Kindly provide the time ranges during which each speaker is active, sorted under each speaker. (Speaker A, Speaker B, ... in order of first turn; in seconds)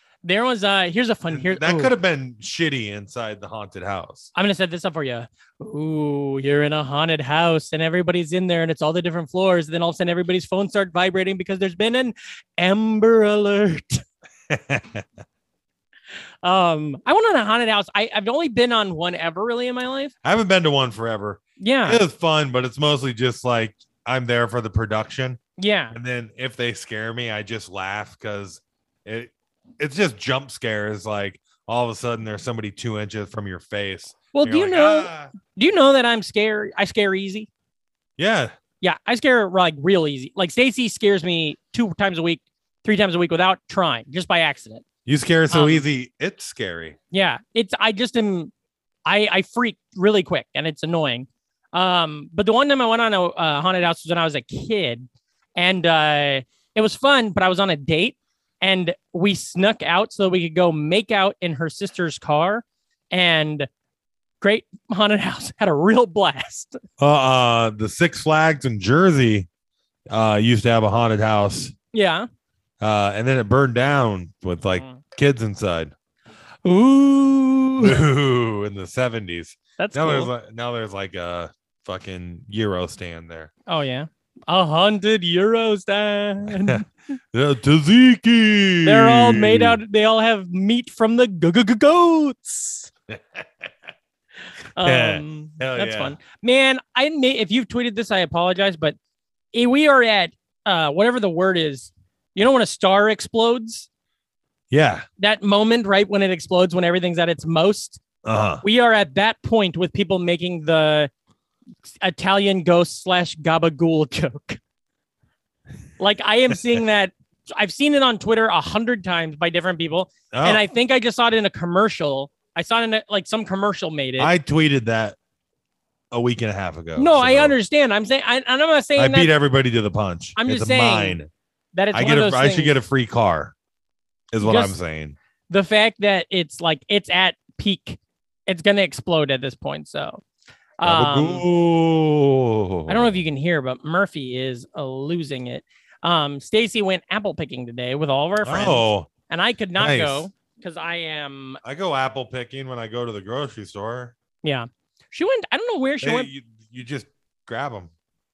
Speaker A: 0.2-1.9, 4.3-14.0, 16.4-20.1, 21.6-22.0, 25.6-26.0, 34.3-37.5, 38.8-44.8, 45.5-45.9, 47.1-48.5, 49.1-63.7, 64.4-66.8, 71.9-72.3, 74.7-75.0, 76.6-78.0, 79.8-80.3, 83.7-86.8, 88.8-92.9, 94.8-99.0, 99.5-103.9, 105.2-108.0, 108.6-111.1, 112.0-114.6, 116.0-124.3, 127.0-129.3, 130.4-131.2, 131.7-132.8, 134.4-134.8, 135.5-140.2, 140.8-141.4, 142.9-151.6, 154.4-156.3
Speaker B: 1.3-4.3, 14.5-15.1, 20.2-25.4, 25.9-35.3, 38.2-38.5, 45.1-47.0, 67.0-69.5, 70.1-71.7, 72.8-75.9, 77.8-83.5, 86.4-89.8, 93.1-93.7, 94.8-96.2, 104.7-105.1, 108.2-108.6, 120.3-120.6, 124.2-125.2, 126.1-127.6, 129.0-131.3, 131.9-133.6, 134.3-135.2, 140.8-143.1, 148.4-149.1, 149.8-150.3, 151.6-154.2, 156.0-157.9